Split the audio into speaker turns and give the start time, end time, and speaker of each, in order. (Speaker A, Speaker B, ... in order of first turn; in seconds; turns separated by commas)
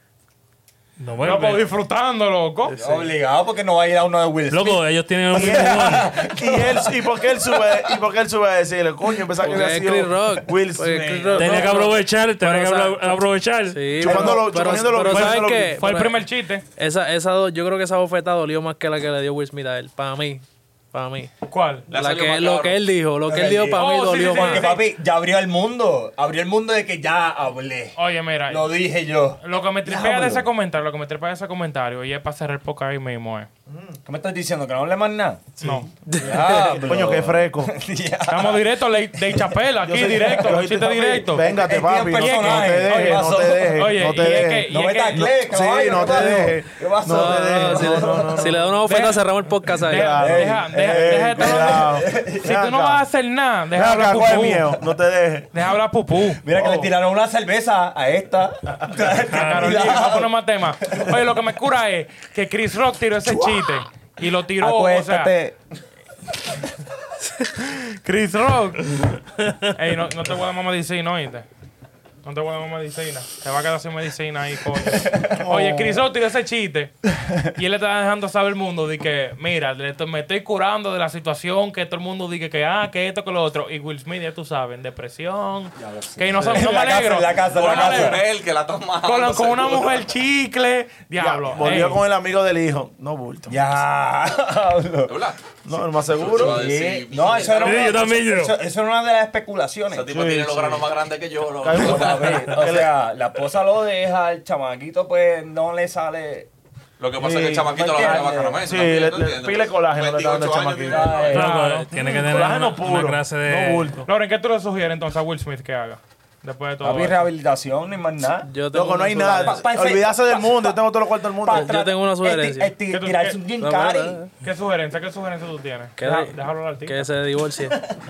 Speaker A: 1.0-1.7, Speaker B: 1.2-2.7, Speaker C: 2.7-3.1, Speaker D: 2.7-8.0, Speaker A: 4.5-6.1, Speaker E: 5.3-11.5, Speaker C: 9.4-16.2, Speaker D: 10.8-11.8, Speaker A: 11.4-14.3, Speaker E: 14.0-15.7, Speaker B: 15.1-16.6, Speaker C: 16.8-21.3, Speaker B: 21.5-21.9, Speaker F: 21.9-22.8, Speaker C: 21.9-24.7, Speaker D: 23.2-30.5, Speaker B: 23.8-24.9, Speaker B: 28.0-28.7, Speaker B: 29.4-33.5, Speaker E: 33.7-34.0, Speaker D: 34.0-35.5, Speaker E: 35.6-37.7, Speaker B: 35.6-35.9, Speaker C: 36.1-36.8, Speaker D: 36.2-39.5, Speaker B: 38.3-41.5, Speaker E: 39.8-48.7, Speaker D: 41.4-48.5, Speaker B: 42.1-45.3, Speaker C: 46.0-46.5, Speaker C: 47.1-50.2, Speaker B: 48.8-54.7, Speaker E: 49.9-53.0, Speaker D: 50.2-52.5, Speaker E: 53.7-55.5, Speaker D: 53.9-54.8, Speaker B: 55.5-56.4, Speaker D: 56.4-61.3, Speaker E: 56.5-56.9, Speaker B: 59.3-65.3, Speaker A: 59.3-59.8, Speaker D: 63.2-63.8, Speaker D: 64.6-65.6, Speaker B: 67.6-69.1, Speaker B: 69.7-71.5, Speaker B: 72.2-88.2, Speaker D: 75.0-75.3, Speaker E: 75.3-76.0, Speaker D: 85.8-88.2, Speaker F: 87.5-90.0, Speaker B: 89.0-92.0, Speaker E: 91.2-93.6, Speaker D: 93.5-100.1, Speaker F: 95.0-95.4, Speaker E: 95.7-96.6, Speaker F: 96.1-98.1, Speaker A: 97.5-98.5, Speaker F: 99.9-102.7, Speaker E: 100.1-100.9, Speaker E: 101.6-102.9, Speaker D: 101.7-106.5, Speaker F: 107.0-111.5, Speaker E: 107.2-111.3, Speaker D: 107.5-108.7, Speaker D: 110.8-111.5, Speaker B: 111.3-111.9, Speaker A: 111.3-114.0, Speaker E: 111.9-114.1, Speaker B: 114.0-117.3, Speaker D: 116.8-118.5, Speaker C: 118.4-119.6, Speaker E: 118.7-121.8, Speaker D: 119.3-120.8, Speaker D: 121.4-124.2, Speaker C: 121.5-122.7, Speaker B: 122.9-123.4, Speaker C: 123.6-124.3, Speaker B: 124.4-127.1, Speaker C: 126.0-127.8